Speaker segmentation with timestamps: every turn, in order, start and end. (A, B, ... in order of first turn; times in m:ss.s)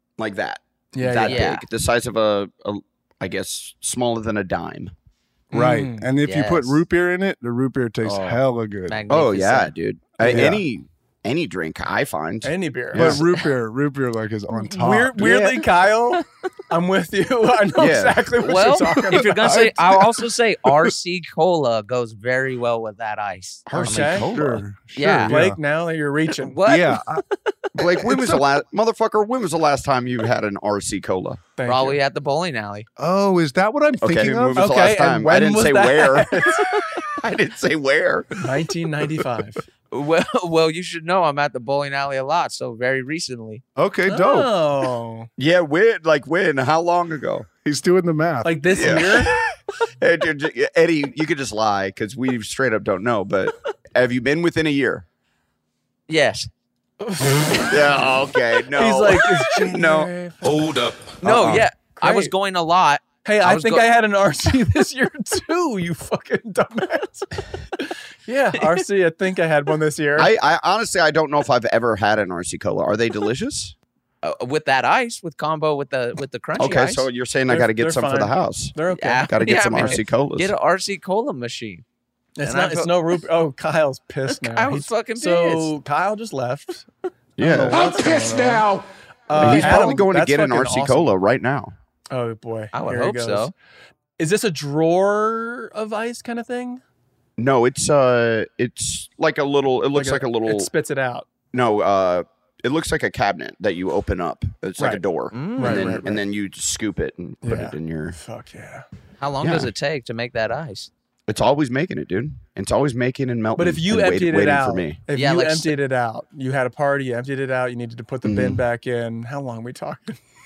0:00.2-0:04.9 A
0:00.9-0:01.5 B
0:01.2-0:01.6 C
0:05.5-0:06.1 B
0:05.5-0:09.0 D
0:06.2-0:06.8 C
0:08.0-0:09.7 C
0:09.1-0:13.2 A
0:10.2-0:10.6 D
0:12.4-0:13.2 B
0:12.9-0:15.3 D
0:14.7-0:19.6 B
0:15.2-0:15.6 A
0:17.8-0:18.7 A
0:18.4-0:24.2 C
0:19.4-0:20.9 D
0:23.7-0:24.6 A
0:23.7-0:24.3 B
0:24.3-0:25.6 D
0:24.9-0:25.3 C
0:25.2-0:26.6 B
0:26.3-0:27.4 C
0:26.6-0:27.2 D
0:27.8-0:31.4 A
0:31.6-0:32.0 B
0:31.6-0:32.9 C
0:33.0-0:34.7 D
0:34.0-0:36.5 A
0:34.5-0:36.8 B
0:37.0-0:38.4 A
0:38.4-0:39.6 B
0:39.9-0:43.6 C
0:43.8-0:44.5 D
0:44.1-0:45.3 B
0:45.4-0:47.5 A
0:47.6-0:48.9 D
0:48.4-0:49.3 B
0:48.7-0:49.2 A
0:50.0-0:55.0 A
0:56.1-0:56.5 C
0:57.0-0:57.9 B
0:57.7-1:00.1 A
0:58.7-1:00.6 B
1:00.4-1:01.2 E
1:01.2-1:03.9 C
1:01.2-1:01.6 A
1:01.8-1:02.3 B
1:03.2-1:10.3 B
1:10.2-1:13.7 A
1:14.2-1:17.0 C
1:16.6-1:20.5 A
1:17.5-1:20.1 B
1:18.9-1:21.8 C
1:22.4-1:28.7 B
1:22.4-1:22.9 C
1:24.3-1:25.7 C
1:27.4-1:28.0 A
1:27.7-1:28.8 E
1:29.3-1:31.1 B
1:29.3-1:31.8 A
1:32.1-1:33.5 B
1:32.7-1:33.5 C
1:34.2-1:36.8 B
1:37.4-1:40.7 A
1:39.9-1:41.3 B
1:41.5-1:48.2 A
1:44.8-1:46.1 B
1:45.3-1:46.2 C
1:47.4-1:48.8 B
1:49.2-1:50.9 C
1:49.4-1:49.7 A
1:51.3-1:55.0 A
1:53.6-2:00.2 B
1:55.1-1:55.7 C
1:58.2-1:58.6 A